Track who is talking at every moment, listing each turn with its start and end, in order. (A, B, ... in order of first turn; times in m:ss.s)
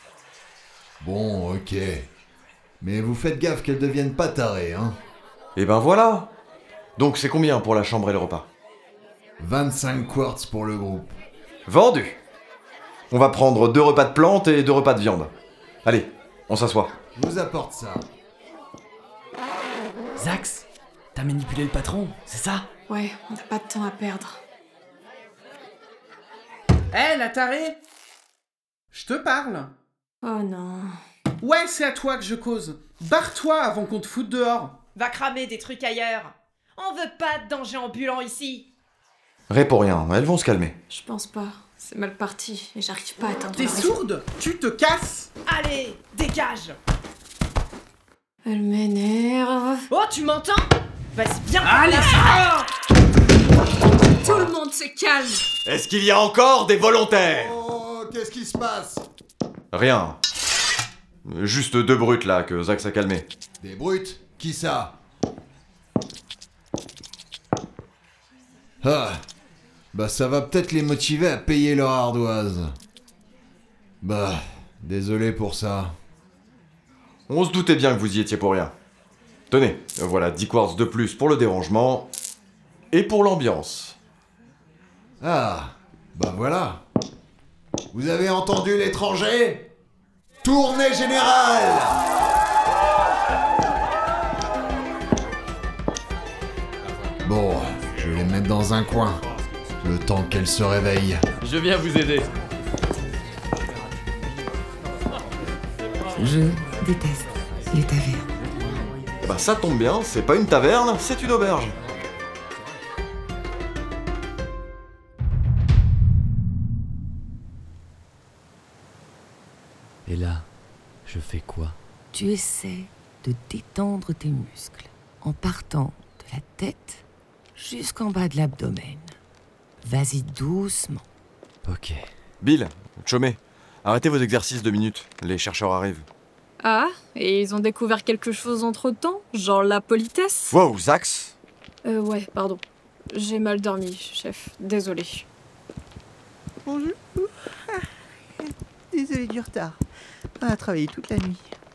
0:01.0-0:02.1 A
0:02.8-0:05.0 A
0:05.6-0:06.3 B
0:07.0-0:08.5 B
0:09.4-0:11.2 A
0:11.7-0:12.2 B
0:13.1-0:15.3 B
0:15.8-0:17.0 B
0:17.2-0:18.1 A
0:20.2-0:22.6 C
0:22.9-0:24.4 D
0:26.9-0:27.8 E
0:28.9-0:29.7 E
0:30.2-0:30.9 D
0:31.4-0:34.8 E
0:35.0-0:38.6 F
0:39.5-0:40.7 B
0:40.9-0:44.0 D
0:43.6-0:45.3 E
0:45.4-0:46.8 F
0:48.4-0:49.8 D
0:49.9-0:52.4 F
0:54.2-0:55.4 D
0:55.6-0:57.6 B
0:57.3-0:59.0 A
0:59.7-1:00.2 B
1:01.3-1:03.3 B
1:03.6-1:05.0 A
1:08.8-1:09.2 A
1:09.9-1:12.8 A
1:14.0-1:15.9 A
1:17.3-1:18.7 B
1:19.5-1:22.1 B
1:22.9-1:24.0 B
1:25.2-1:26.8 A
1:27.9-1:29.7 A
1:30.4-1:32.0 A
1:37.2-1:39.2 A
1:39.8-1:41.2 A
1:41.4-1:42.3 C
1:46.2-1:48.3 G
1:49.2-1:51.8 B
2:00.1-2:00.5 C
2:01.1-2:01.8 C
2:02.1-2:07.0 G
2:07.6-2:09.1 G
2:09.8-2:11.0 G
2:11.6-2:12.1 C
2:12.4-2:16.1 B
2:16.6-2:20.6 D
2:20.5-2:21.4 B
2:21.8-2:22.6 D
2:23.1-2:25.3 D
2:26.6-2:27.9 H
2:28.4-2:29.8 H
2:30.4-2:31.6 H